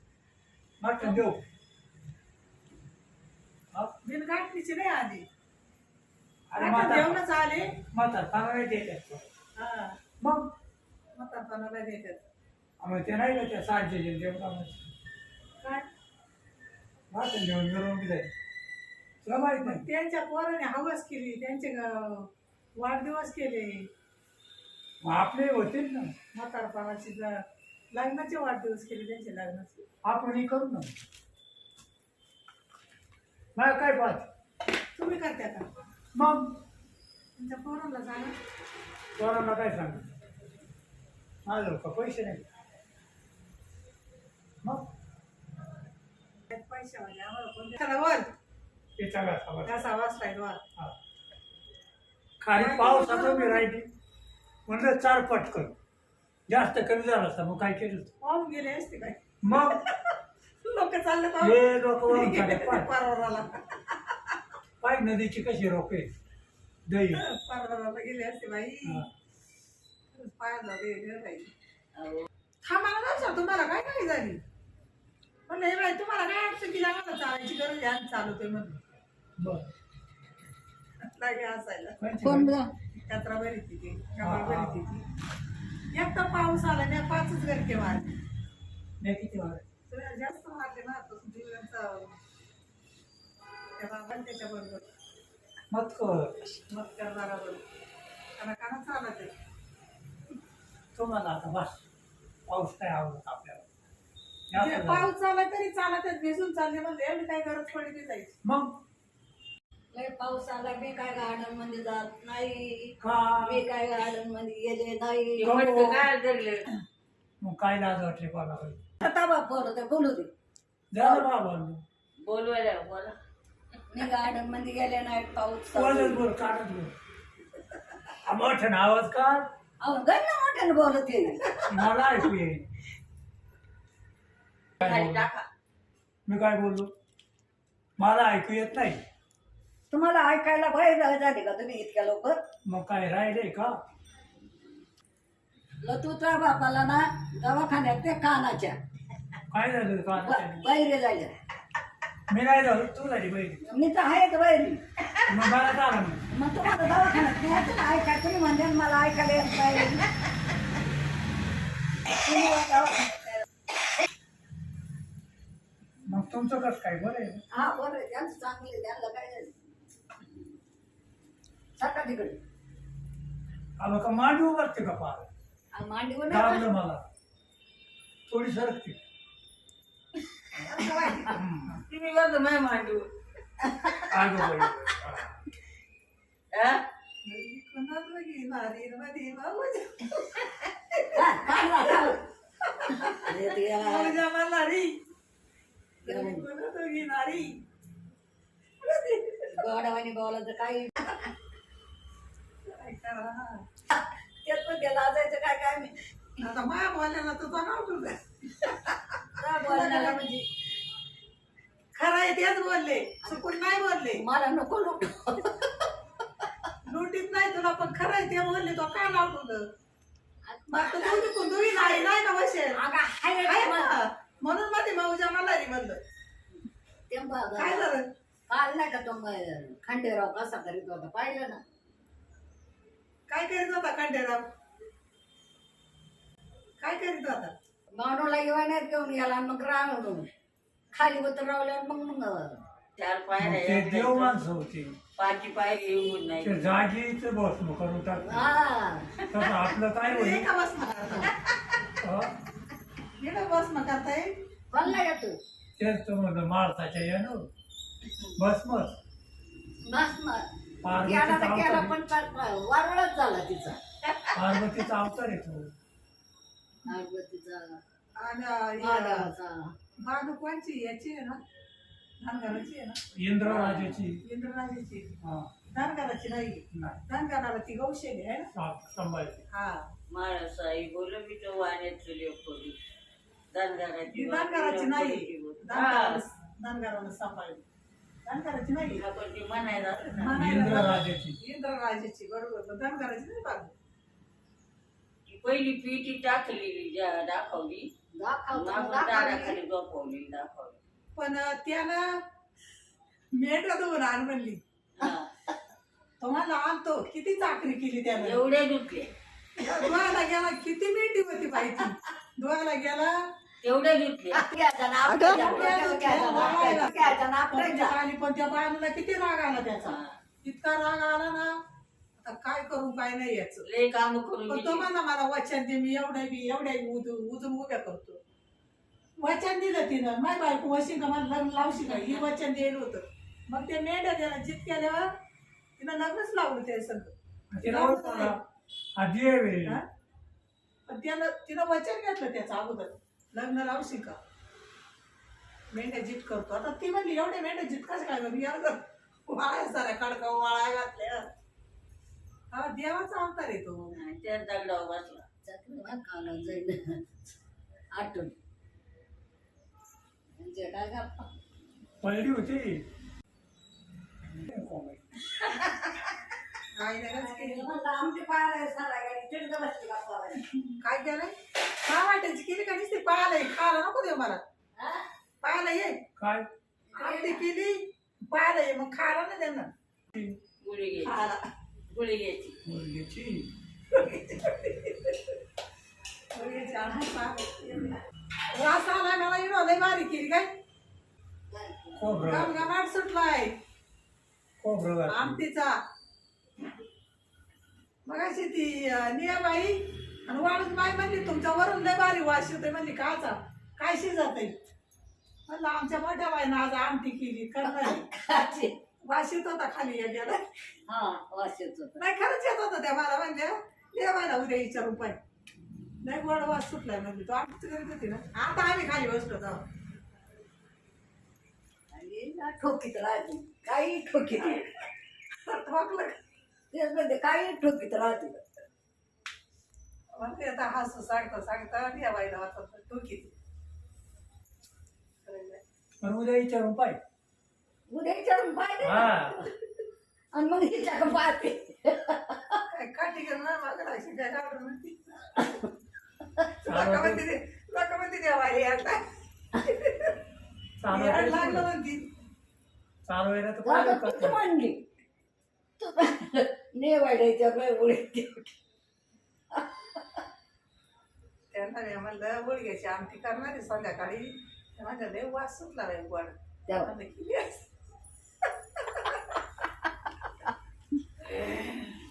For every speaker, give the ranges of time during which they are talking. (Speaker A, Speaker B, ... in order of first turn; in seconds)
Speaker A: 0.8-1.4, 6.5-7.2, 7.9-9.3, 10.2-10.5, 12.8-14.8, 17.1-18.3, 19.2-19.8, 25.0-26.2, 30.0-30.9, 33.5-34.3, 36.1-36.6, 39.2-40.1, 41.5-42.5, 44.6-44.9, 49.0-49.9, 52.4-53.9, 54.7-55.8, 56.5-58.1, 59.4-59.8, 61.4-62.9, 64.8-66.1, 66.9-67.2, 79.4-79.7, 82.0-82.5, 84.2-84.8, 89.0-89.6, 95.7-96.5, 101.0-101.8, 102.5-103.7, 104.5-105.1, 108.5-108.8, 113.0-113.7, 115.4-116.1, 117.4-118.8, 120.9-121.8, 125.7-127.0, 128.2-129.5, 131.7-132.7, 134.8-135.1, 136.3-136.9, 138.0-139.0, 142.7-143.8, 149.5-150.7, 152.3-153.6, 155.3-156.3, 166.1-167.4, 173.8-175.3, 176.3-177.0, 178.3-179.0, 181.3-181.8, 184.1-185.4, 243.4-245.0, 246.4-248.5, 249.3-250.5, 252.0-252.3, 255.8-257.5, 258.4-259.0, 260.8-261.9, 264.4-265.7, 273.1-274.2, 275.2-275.5, 276.7-277.0, 278.5-279.4, 290.4-291.4, 337.5-338.4, 339.0-339.8, 362.0-362.9, 364.3-365.1, 376.2-376.5, 380.1-380.4, 382.6-383.5, 392.0-392.7, 394.6-395.4, 436.0-437.0, 438.8-439.4, 446.7-447.2, 450.8-451.7, 453.1-454.4
Speaker B: 4.0-5.2, 6.6-7.7, 9.6-10.0, 11.2-12.2, 15.6-15.9, 19.6-23.9, 26.3-27.4, 27.9-29.8, 35.0-35.7, 37.4-38.4, 46.5-48.3, 49.6-50.6, 52.5-53.6, 58.2-60.0, 60.6-64.3, 67.1-69.1, 70.1-71.5, 72.6-74.4, 75.5-78.8, 81.0-82.0, 83.0-85.0, 85.9-88.1, 89.9-92.1, 93.8-94.9, 96.7-97.6, 98.4-99.3, 104.5-108.4, 180.6-181.4, 187.2-191.2, 192.7-193.2, 193.8-195.0, 196.0-197.6, 198.8-199.5, 202.7-203.6, 206.4-208.7, 209.6-210.2, 212.0-214.2, 216.9-219.7, 220.7-222.8, 223.4-226.0, 227.6-228.1, 233.3-234.4, 236.8-237.5, 250.0-251.4, 253.2-254.4, 268.2-269.3, 270.0-271.4, 272.2-273.0, 274.2-275.1, 275.7-278.5, 279.5-279.9, 284.1-287.6, 288.2-289.1, 290.1-293.7, 301.2-302.2, 303.3-304.6, 306.2-308.4, 309.6-313.2, 315.1-321.5, 322.2-323.7, 324.5-328.2, 329.2-335.1, 335.8-337.1, 337.7-338.4, 340.9-344.2, 345.7-351.3, 352.5-353.9, 366.8-367.6, 370.8-374.4, 375.4-376.0, 376.9-379.7, 381.0-381.4, 383.9-384.9, 386.3-388.0, 388.5-390.5, 392.3-393.6, 395.1-395.8, 398.1-404.6, 405.5-408.1, 409.0-410.4, 412.0-415.2, 416.0-419.6, 425.4-426.2, 430.1-433.3, 435.2-435.6, 442.7-445.4, 446.6-449.1, 449.9-450.1, 450.9-452.1, 461.5-467.7, 468.8-469.1
Speaker C: 72.0-72.3, 115.4-116.7, 122.2-123.2, 134.8-135.4, 181.9-183.1, 186.5-186.8, 243.0-244.4, 245.2-246.7, 273.4-274.0, 280.1-282.8, 283.5-286.2, 288.9-290.4, 295.3-297.9, 298.5-300.8, 305.0-305.3, 308.1-309.1, 313.6-314.4, 319.8-320.1, 323.6-324.9, 331.8-332.2, 353.9-355.2, 380.6-381.2, 381.9-382.6, 471.4-471.8
Speaker D: 82.2-82.7, 109.9-115.5, 119.0-120.3, 123.9-126.2, 129.8-131.7, 139.9-142.4, 145.8-148.8, 150.2-151.3, 153.6-154.8, 156.3-160.1, 162.1-163.4, 167.5-169.6, 171.8-172.4, 175.7-176.7, 191.1-192.2, 193.1-194.2, 196.1-196.4, 199.5-201.2, 203.9-205.9, 209.4-210.5, 213.2-213.5, 214.1-215.7, 220.5-222.1, 222.8-224.0, 227.1-227.9, 228.5-231.6, 237.9-240.3, 240.9-242.6, 248.2-249.1, 254.7-255.4, 259.8-263.8, 266.9-267.8, 268.8-269.7, 298.1-299.6, 314.3-318.0, 355.4-357.0, 357.9-358.4, 360.4-361.3, 367.1-370.5, 374.8-375.1, 376.9-377.4, 391.5-392.1, 407.6-408.8, 410.9-412.0, 421.9-424.7, 426.7-428.4, 437.9-439.5, 440.3-442.6, 453.6-454.8, 455.8-458.5